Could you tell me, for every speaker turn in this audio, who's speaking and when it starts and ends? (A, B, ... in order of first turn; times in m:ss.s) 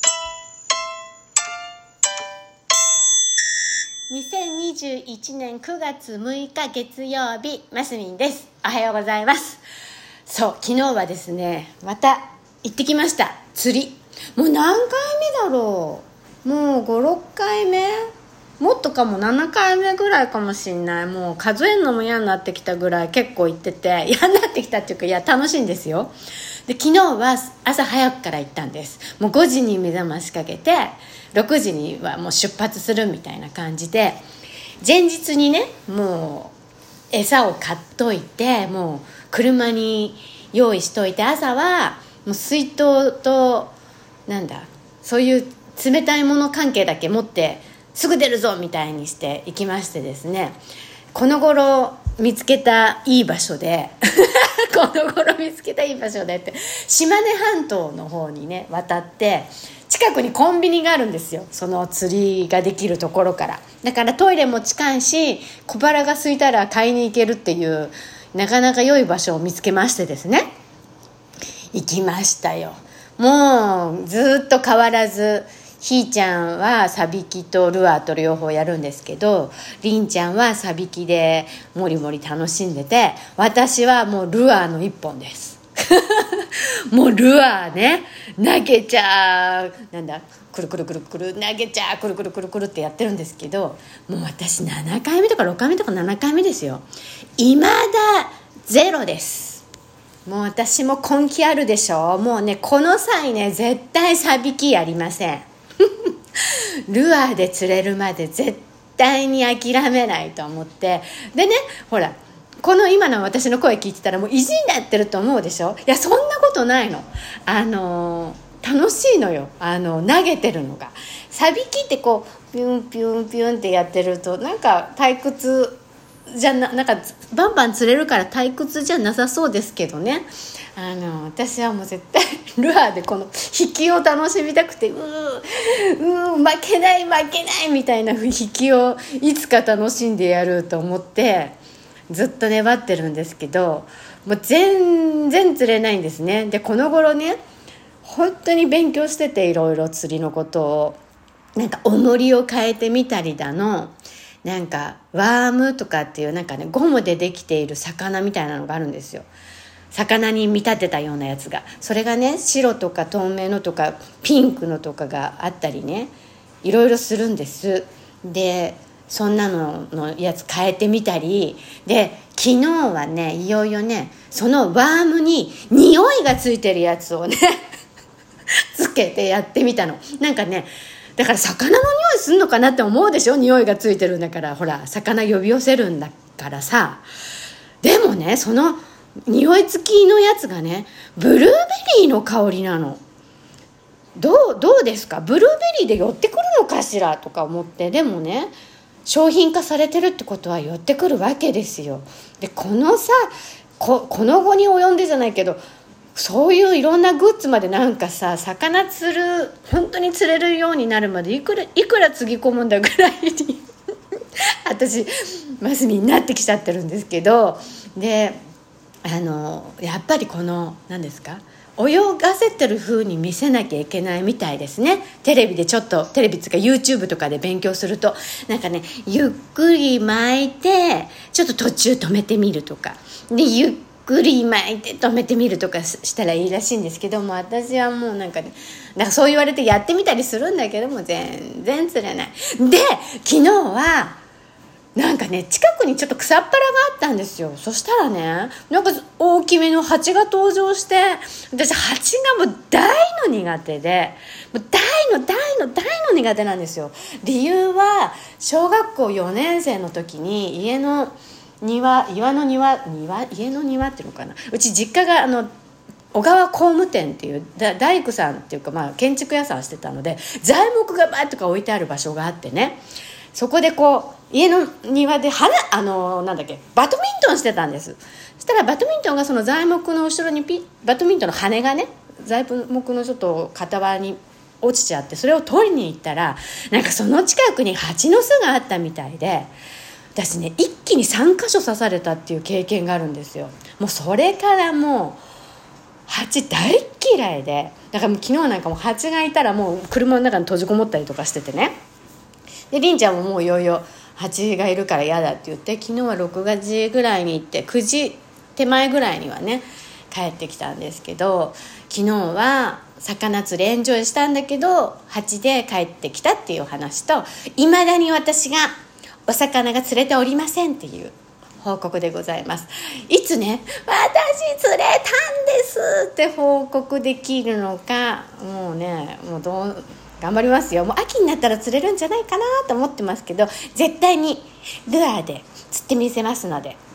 0:04.1-0:09.6 A
0:10.3-0:18.1 A
0:18.6-0:26.1 A
0:26.7-0:34.2 A
0:34.8-0:36.5 A
0:37.1-0:43.7 A
0:44.3-0:50.6 A
0:51.1-1:10.5 A
1:11.7-1:36.8 A
1:37.4-1:39.6 A
1:40.2-2:21.6 A
2:22.1-2:27.4 A
2:28.0-2:31.0 A
2:31.6-2:39.3 A
2:39.9-2:46.1 A
2:46.6-2:57.6 A
2:58.7-3:07.0 A
3:07.8-3:13.0 A
3:14.2-3:18.5 A
3:19.0-3:23.3 A
3:23.8-3:25.6 A
3:26.2-3:33.6 A
3:34.4-3:38.4 A
3:39.0-4:04.2 A
4:05.0-4:25.5 A
4:26.1-4:32.8 A
4:33.3-4:49.5 A
4:50.1-4:55.2 A
4:56.1-5:01.8 A
5:02.7-5:36.8 A